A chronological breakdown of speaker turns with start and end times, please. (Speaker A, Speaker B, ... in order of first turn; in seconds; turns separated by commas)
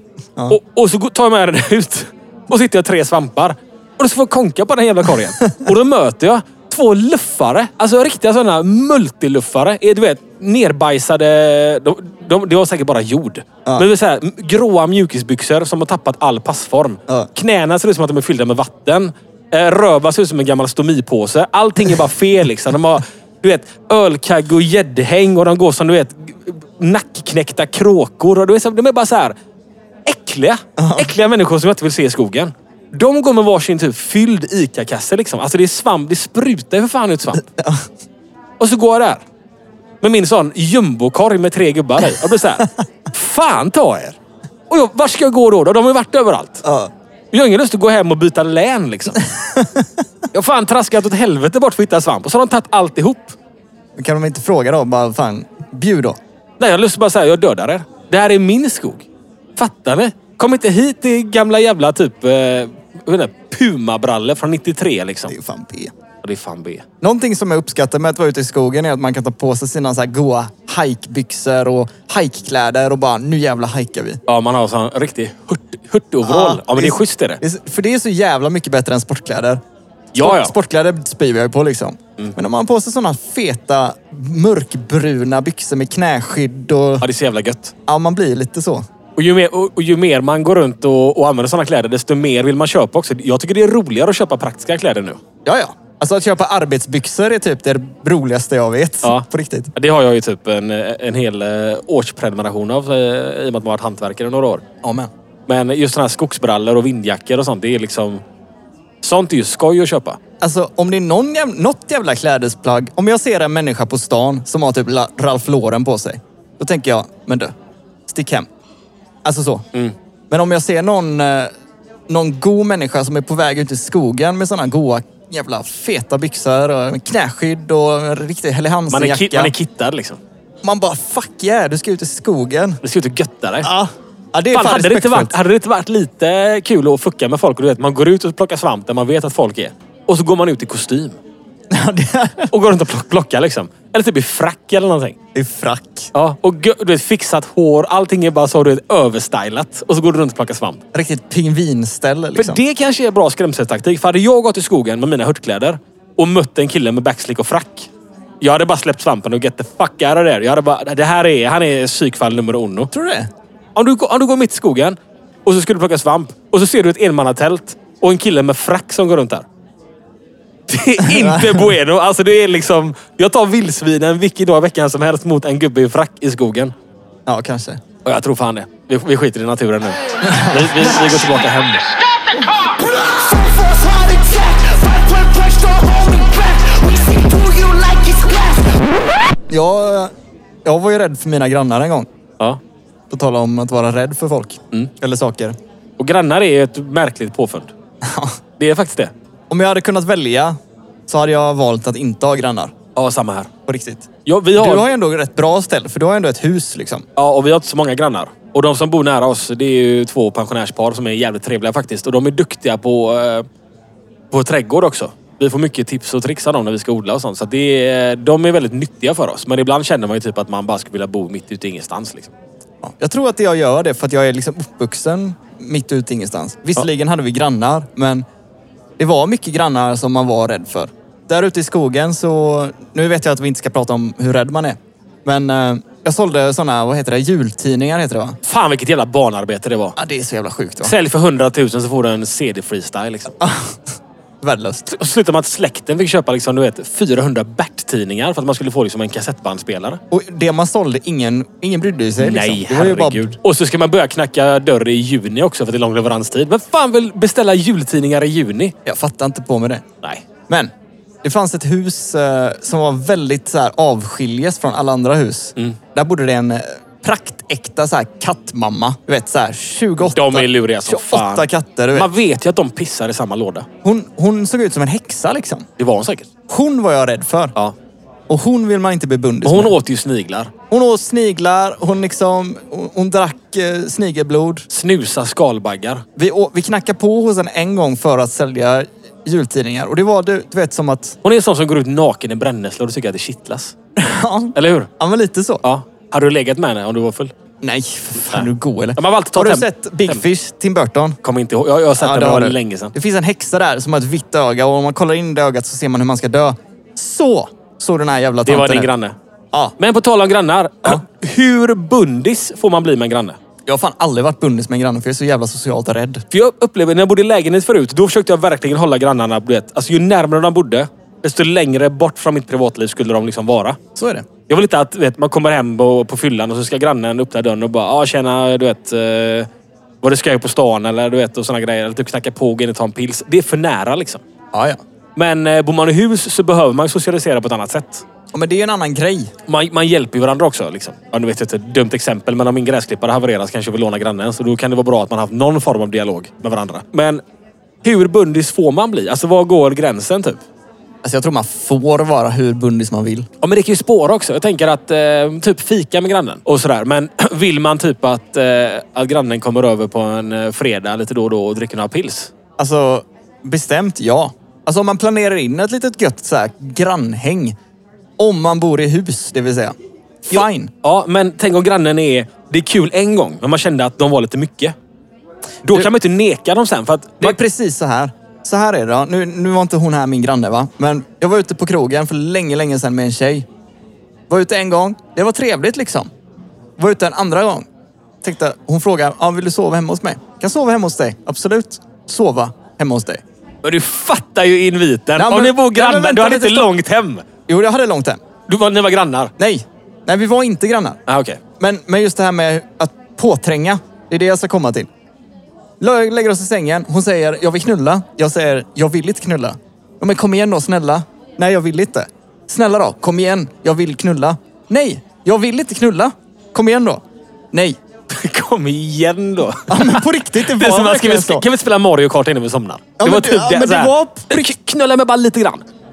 Speaker A: 0.5-29.3, Speaker A: 30.1-37.4, Speaker B: 30.8-31.1, Speaker B: 37.4-37.9, Speaker A: 38.6-39.2, Speaker A: 40.0-44.2, Speaker A: 44.7-46.6, Speaker B: 46.6-46.9, Speaker A: 47.3-49.2, Speaker B: 49.5-49.9, Speaker A: 50.3-53.4, Speaker B: 54.0-56.2, Speaker A: 56.6-59.0, Speaker A: 59.6-65.3, Speaker B: 65.3-65.9, Speaker A: 66.2-66.8, Speaker B: 67.0-74.2, Speaker A: 74.3-77.4, Speaker B: 76.2-79.6, Speaker A: 80.1-80.5, Speaker B: 80.2-87.0, Speaker A: 87.0-87.7, Speaker B: 87.9-88.8, Speaker A: 89.2-95.2, Speaker B: 95.4-99.7, Speaker A: 99.0-104.6, Speaker B: 104.8-105.1, Speaker A: 105.5-108.2, Speaker A: 109.0-110.2, Speaker B: 110.4-117.5, Speaker B: 118.1-118.5, Speaker B: 119.2-119.6, Speaker B: 120.3-121.5, Speaker B: 122.1-129.5, Speaker A: 128.9-130.2, Speaker B: 130.6-132.8, Speaker A: 132.8-133.7, Speaker B: 133.6-135.3, Speaker A: 134.5-141.2, Speaker B: 141.7-142.5, Speaker A: 142.5-145.2, Speaker B: 145.3-146.1, Speaker A: 146.1-150.8, Speaker B: 150.9-152.6, Speaker A: 152.3-157.9, Speaker A: 158.4-162.9, Speaker B: 162.9-163.3, Speaker A: 163.8-169.4, Speaker A: 170.7-176.7, Speaker B: 171.1-171.6, Speaker B: 177.2-177.8, Speaker A: 178.0-181.8, Speaker B: 180.2-181.2, Speaker C: 182.9-188.7, Speaker B: 189.5-190.1, Speaker B: 190.6-192.1, Speaker B: 193.1-195.6, Speaker A: 196.0-197.7, Speaker B: 198.0-198.3, Speaker A: 198.6-199.1, Speaker B: 199.5-200.6, Speaker B: 201.1-202.7, Speaker A: 202.9-203.5, Speaker B: 203.7-207.0, Speaker A: 204.2-204.9, Speaker A: 207.2-213.4, Speaker A: 214.3-222.3, Speaker B: 222.8-228.2, Speaker B: 229.0-238.4, Speaker A: 238.4-240.0, Speaker B: 240.0-240.9, Speaker A: 240.8-243.3, Speaker B: 243.4-243.7, Speaker B: 244.4-244.8, Speaker A: 244.9-250.0, Speaker B: 250.1-253.3, Speaker A: 252.2-258.7, Speaker B: 258.9-259.8, Speaker B: 261.2-272.1, Speaker A: 270.0-273.6, Speaker B: 273.8-275.7, Speaker A: 275.8-276.3, Speaker B: 276.5-277.5, Speaker B: 278.3-279.7, Speaker A: 279.4-280.5, Speaker B: 280.7-284.6, Speaker A: 284.7-286.0, Speaker B: 286.2-291.2, Speaker A: 291.2-293.7, Speaker B: 294.0-295.6, Speaker A: 294.5-294.9, Speaker A: 295.6-297.3, Speaker B: 297.6-301.2, Speaker A: 298.3-300.2, Speaker A: 301.2-302.9, Speaker B: 302.0-308.9, Speaker A: 308.4-309.1, Speaker A: 309.8-313.4, Speaker B: 313.6-316.2, Speaker A: 316.3-323.8, Speaker B: 323.9-324.2, Speaker A: 324.5-329.5, Speaker A: 330.0-334.2, Speaker B: 334.5-334.8, Speaker A: 335.1-338.0, Speaker B: 338.3-339.3, Speaker A: 339.5-347.2, Speaker A: 347.8-350.4, Speaker B: 351.0-353.3, Speaker A: 353.4-362.3, Speaker B: 362.6-367.6, Speaker B: 368.2-370.7, Speaker A: 370.4-374.7, Speaker A: 375.6-377.4, Speaker B: 377.2-383.4, Speaker B: 384.3-386.1, Speaker B: 386.8-387.7, Speaker B: 388.2-393.2, Speaker A: 393.6-397.2, Speaker B: 395.2-396.7, Speaker B: 397.5-398.2, Speaker A: 398.5-399.3, Speaker B: 399.4-401.0, Speaker A: 401.1-401.4, Speaker B: 401.6-404.9, Speaker B: 405.8-417.8, Speaker A: 418.1-425.7, Speaker B: 419.7-421.4, Speaker B: 423.0-424.3